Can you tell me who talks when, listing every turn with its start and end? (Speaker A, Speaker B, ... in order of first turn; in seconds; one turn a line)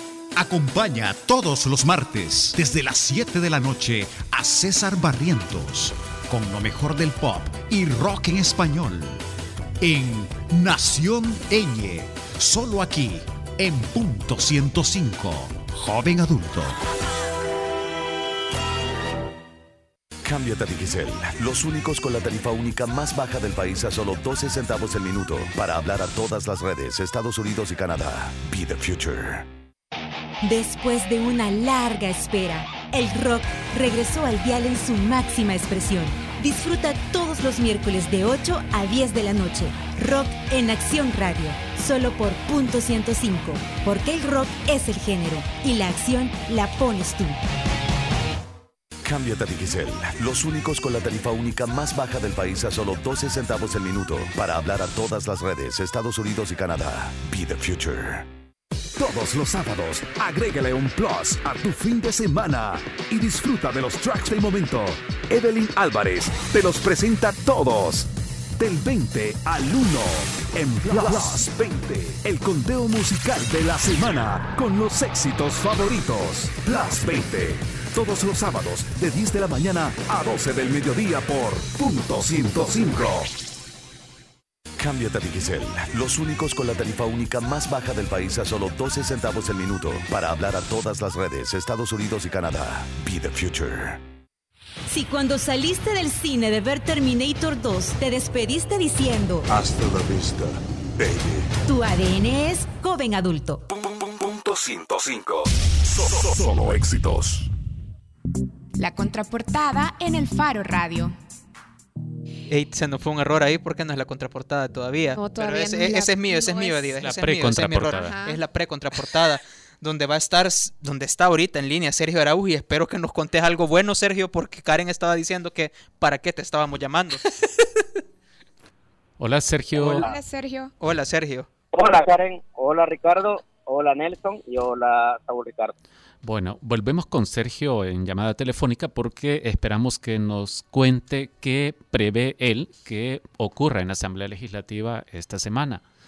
Speaker A: 0.4-9.2
Speaker A: 9.8-16.8
Speaker B: 20.2-29.5
Speaker C: 30.4-47.4
Speaker B: 49.0-58.3
Speaker D: 59.0-83.3
Speaker B: 84.8-94.0
Speaker C: 94.9-99.5
Speaker C: 101.7-103.6
Speaker D: 106.5-107.3
Speaker E: 108.8-111.2
Speaker F: 112.5-127.2
Speaker E: 115.2-117.1
Speaker G: 117.0-118.2
Speaker E: 117.9-118.4
Speaker G: 129.2-130.1
Speaker F: 129.7-130.1
Speaker E: 130.0-130.7
Speaker F: 130.8-131.5
Speaker H: 131.7-135.7
Speaker G: 136.2-145.8